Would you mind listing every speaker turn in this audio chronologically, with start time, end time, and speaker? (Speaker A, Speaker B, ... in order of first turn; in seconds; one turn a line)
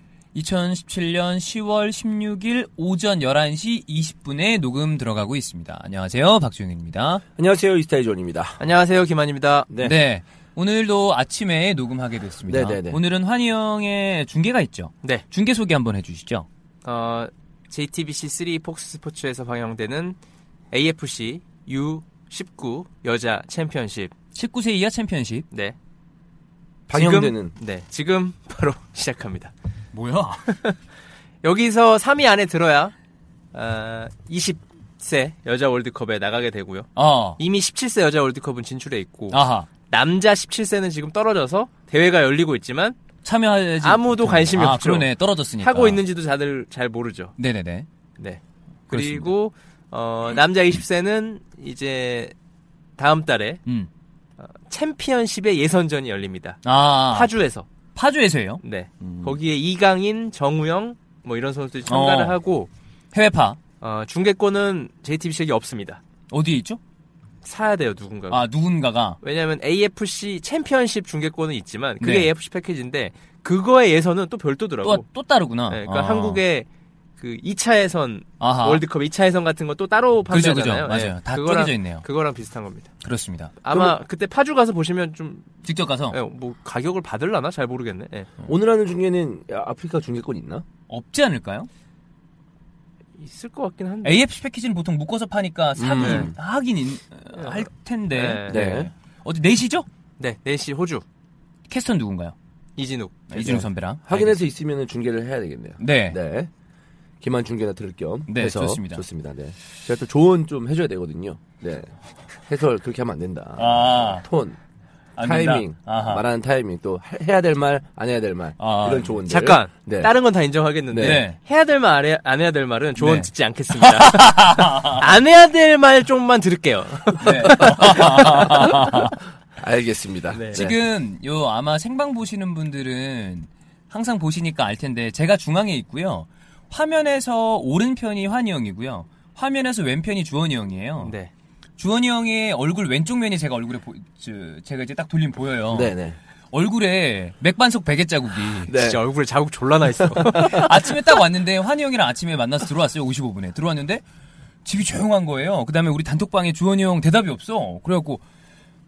Speaker A: 0.3-7.2
Speaker B: 7.4-8.6
Speaker C: 8.6-9.7
Speaker B: 9.7-10.0
Speaker A: 9.8-16.4
Speaker B: 12.5-13.0
Speaker C: 16.8-20.2
Speaker C: 20.7-24.1
Speaker A: 24.3-25.5
Speaker B: 26.9-27.5
Speaker C: 26.9-29.5
Speaker A: 29.9-30.5
Speaker C: 30.5-30.8
Speaker C: 31.4-32.9
Speaker C: 33.5-43.0
Speaker A: 37.0-37.4
Speaker A: 39.3-39.7
Speaker A: 43.2-46.0
Speaker C: 43.8-45.1
Speaker C: 45.6-47.3
Speaker A: 47.4-47.9
Speaker C: 48.2-52.3
Speaker A: 48.9-49.3
Speaker C: 53.0-53.6
Speaker C: 54.4-57.6
Speaker A: 56.6-57.3
Speaker A: 57.9-59.3
Speaker C: 58.6-62.7
Speaker A: 61.9-62.4
Speaker A: 63.1-63.6
Speaker C: 63.8-66.0
Speaker A: 66.3-66.8
Speaker C: 67.4-68.4
Speaker A: 68.3-69.2
Speaker C: 69.2-75.0
Speaker A: 72.0-72.3
Speaker A: 74.8-76.4
Speaker C: 75.7-76.7
Speaker C: 77.2-82.9
Speaker A: 78.4-78.8
Speaker A: 80.3-82.0
Speaker A: 83.0-83.5
Speaker C: 83.6-85.5
Speaker A: 85.6-86.2
Speaker C: 86.1-88.3
Speaker B: 88.4-90.6
Speaker A: 90.9-91.7
Speaker C: 93.2-94.2
Speaker A: 94.0-99.8
Speaker B: 95.8-96.3
Speaker C: 96.0-96.3
Speaker C: 97.3-98.6
Speaker B: 98.5-98.9
Speaker C: 100.2-101.0
Speaker A: 101.7-102.3
Speaker C: 102.8-103.2
Speaker A: 103.3-104.4
Speaker B: 103.3-106.5
Speaker A: 105.8-106.2
Speaker B: 107.2-111.9
Speaker A: 108.3-109.0
Speaker B: 112.5-114.6
Speaker A: 113.5-114.2
Speaker A: 115.2-116.2
Speaker B: 115.2-120.1
Speaker A: 118.6-119.2
Speaker C: 119.3-129.0
Speaker B: 120.9-121.2
Speaker A: 121.0-121.4
Speaker A: 123.0-125.0
Speaker A: 127.2-129.1
Speaker B: 128.0-129.0
Speaker B: 129.6-130.8
Speaker C: 130.3-130.6
Speaker A: 130.5-141.1
Speaker C: 141.0-141.3
Speaker A: 141.8-145.9
Speaker B: 145.7-146.2
Speaker A: 146.5-148.7
Speaker B: 148.7-149.0
Speaker C: 148.7-150.8
Speaker A: 150.4-154.0
Speaker A: 154.6-158.2